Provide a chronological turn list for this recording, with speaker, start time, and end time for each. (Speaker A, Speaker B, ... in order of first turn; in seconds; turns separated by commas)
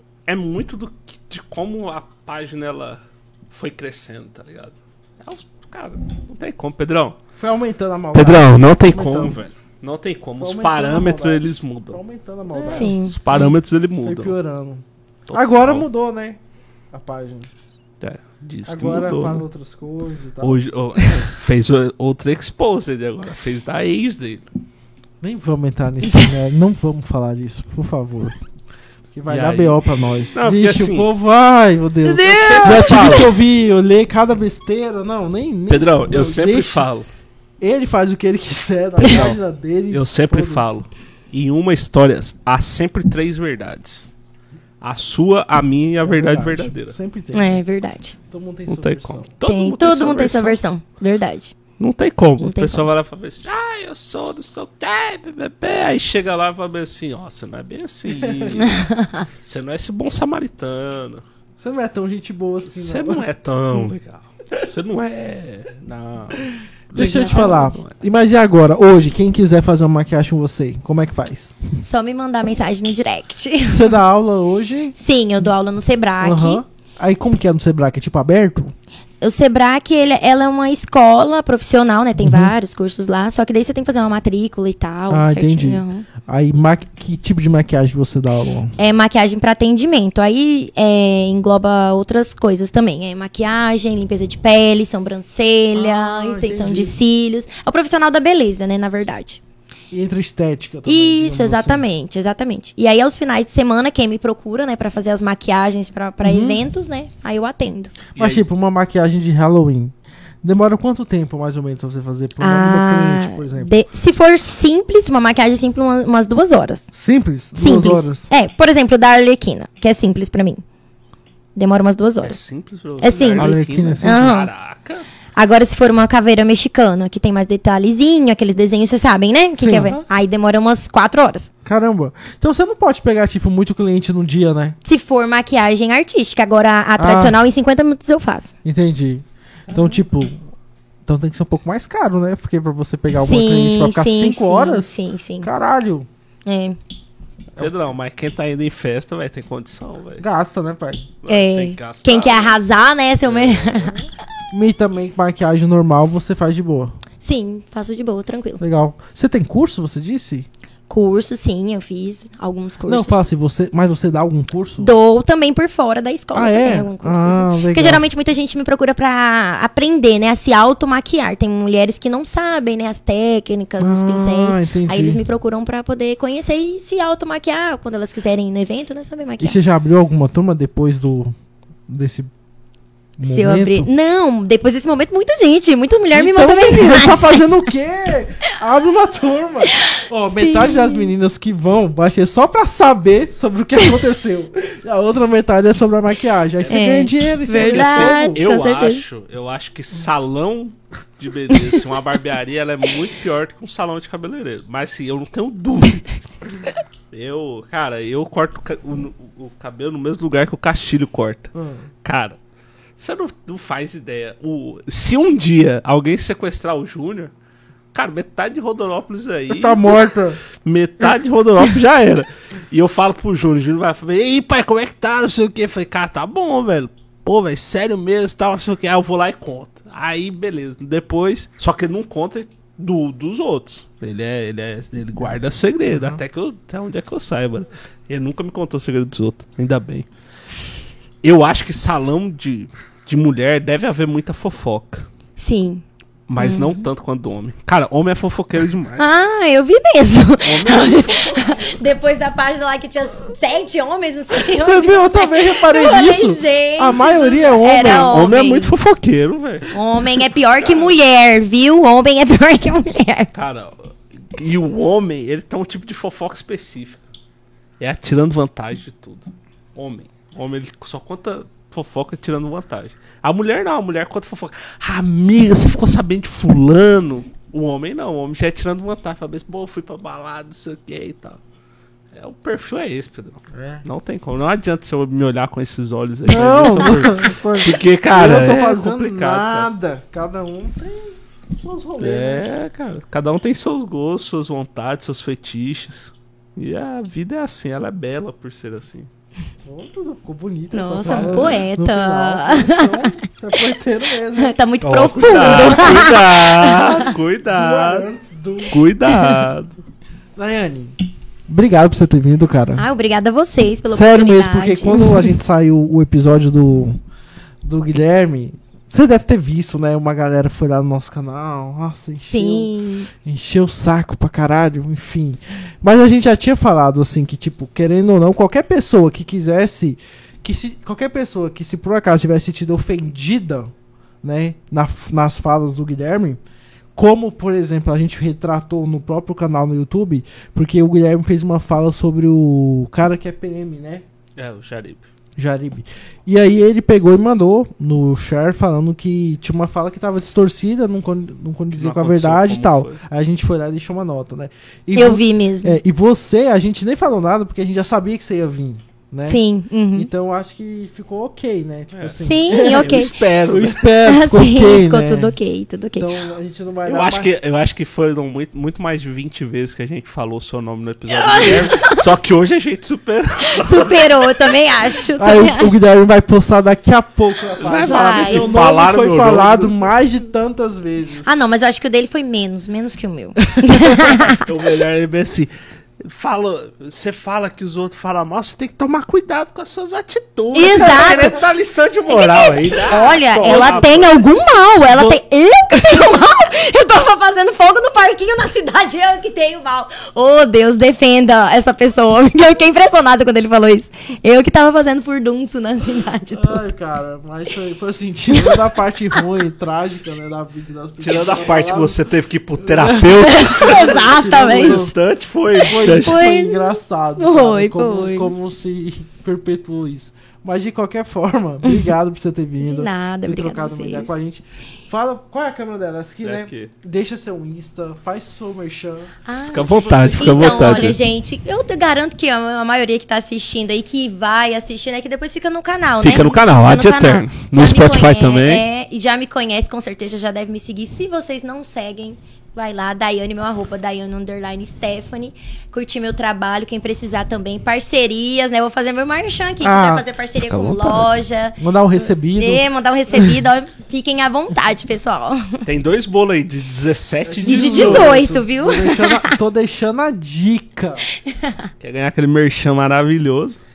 Speaker A: 0.3-7.2, Speaker B: 7.4-9.4, Speaker A: 8.1-12.0, Speaker B: 10.4-16.4, Speaker A: 12.6-14.3, Speaker C: 12.6-13.2, Speaker A: 15.3-15.9, Speaker B: 16.9-17.5, Speaker A: 18.0-19.4, Speaker B: 18.7-20.6, Speaker A: 20.4-24.5, Speaker B: 25.2-28.4, Speaker B: 29.1-36.9, Speaker A: 29.2-29.8, Speaker A: 30.3-31.1, Speaker C: 32.0-33.3, Speaker A: 32.3-33.3, Speaker A: 35.7-37.1, Speaker B: 37.6-40.8, Speaker A: 39.0-39.4, Speaker A: 39.9-44.1, Speaker A: 44.8-47.0, Speaker B: 46.0-47.6, Speaker C: 47.3-48.2, Speaker B: 48.3-49.3, Speaker A: 48.7-50.6, Speaker C: 49.5-51.5, Speaker A: 51.8-58.9, Speaker C: 52.4-52.9, Speaker B: 58.1-58.6, Speaker C: 58.6-59.2, Speaker A: 59.4-61.2, Speaker B: 61.6-63.9, Speaker A: 62.6-68.0, Speaker B: 66.9-71.6, Speaker C: 67.0-67.7, Speaker C: 71.8-74.0, Speaker B: 73.7-75.0, Speaker C: 75.0-76.6, Speaker B: 76.2-78.7, Speaker C: 79.2-86.1, Speaker B: 82.2-82.5, Speaker B: 85.1-88.7, Speaker C: 88.8-99.4, Speaker B: 95.7-97.0, Speaker B: 99.9-101.8, Speaker C: 100.9-107.9, Speaker B: 106.2-106.6, Speaker A: 108.2-108.4, Speaker B: 108.2-113.7, Speaker C: 112.4-116.9, Speaker B: 116.9-118.3, Speaker C: 117.5-120.6, Speaker C: 121.6-122.4, Speaker A: 122.2-125.1, Speaker C: 123.0-124.5, Speaker B: 123.4-124.5, Speaker C: 125.4-131.5, Speaker B: 129.6-130.0, Speaker B: 131.7-134.8, Speaker C: 134.8-138.5, Speaker B: 137.0-137.4, Speaker B: 138.6-140.4, Speaker B: 141.1-144.9, Speaker C: 143.1-145.5, Speaker B: 145.4-146.1, Speaker C: 146.5-146.8, Speaker A: 147.6-150.2, Speaker B: 150.2-151.1, Speaker A: 151.2-152.6, Speaker C: 151.3-154.0, Speaker A: 153.2-154.0, Speaker B: 154.5-157.0, Speaker C: 157.2-158.6, Speaker B: 158.6-160.5, Speaker C: 160.9-163.2, Speaker B: 162.9-164.9, Speaker C: 164.8-179.6, Speaker B: 166.3-168.0, Speaker B: 173.8-175.2, Speaker B: 179.4-181.3, Speaker B: 181.9-182.3, Speaker B: 183.2-183.9, Speaker C: 183.2-187.6, Speaker B: 186.1-198.4, Speaker C: 189.8-191.1, Speaker C: 196.7-199.0, Speaker A: 197.6-211.5, Speaker B: 211.6-211.9, Speaker A: 212.0-212.4, Speaker A: 213.0-217.3, Speaker A: 217.9-220.0, Speaker B: 219.5-220.4, Speaker A: 220.6-240.1, Speaker B: 235.9-236.2, Speaker A: 241.2-245.1, Speaker C: 245.4-245.8, Speaker A: 246.3-249.1, Speaker C: 246.4-246.8, Speaker C: 249.0-258.8, Speaker A: 250.4-251.8, Speaker B: 254.5-258.3, Speaker A: 258.1-259.7, Speaker C: 259.7-263.3, Speaker A: 260.6-261.0, Speaker A: 263.3-267.0, Speaker A: 267.8-281.4, Speaker A: 282.1-289.7, Speaker B: 283.5-283.8, Speaker B: 286.3-292.5, Speaker A: 292.0-299.1, Speaker B: 299.6-304.6, Speaker C: 300.7-303.2, Speaker A: 301.0-301.4, Speaker C: 304.4-307.1, Speaker A: 304.8-308.1, Speaker B: 305.4-306.2, Speaker B: 307.5-308.8, Speaker A: 308.7-309.8, Speaker C: 309.1-309.4, Speaker B: 310.4-311.0, Speaker B: 311.5-312.9, Speaker C: 312.8-315.3, Speaker B: 313.9-317.0, Speaker B: 317.6-322.7, Speaker C: 322.3-323.1, Speaker B: 323.2-336.4, Speaker B: 336.9-344.1, Speaker A: 344.4-345.1, Speaker B: 345.4-359.4, Speaker A: 351.7-353.0, Speaker C: 354.9-355.8, Speaker C: 359.3-360.1, Speaker B: 359.9-365.4, Speaker A: 361.9-363.9, Speaker C: 362.2-363.2, Speaker C: 364.0-366.1, Speaker B: 366.0-367.3, Speaker A: 366.9-374.5, Speaker C: 371.1-372.0, Speaker C: 373.5-375.7, Speaker B: 375.2-381.4, Speaker A: 377.6-379.9, Speaker C: 377.8-378.6, Speaker C: 381.2-384.4, Speaker B: 383.5-384.2, Speaker A: 384.2-385.5, Speaker A: 386.0-394.3, Speaker C: 390.5-391.4, Speaker C: 392.1-406.6, Speaker B: 393.4-394.0, Speaker B: 394.9-396.1, Speaker B: 406.3-412.0, Speaker A: 411.0-416.3, Speaker B: 412.6-414.9, Speaker C: 413.2-414.9, Speaker B: 415.6-431.0, Speaker C: 415.7-418.3, Speaker C: 421.6-421.9, Speaker C: 422.6-424.1, Speaker A: 426.2-426.7, Speaker C: 429.3-451.6, Speaker A: 429.4-431.0, Speaker A: 436.0-438.7, Speaker B: 449.6-450.1, Speaker A: 450.4-451.1, Speaker B: 451.6-453.4, Speaker C: 452.4-455.6, Speaker A: 455.6-458.2, Speaker B: 457.2-461.1, Speaker C: 457.4-459.4, Speaker C: 461.2-461.7, Speaker A: 461.8-463.6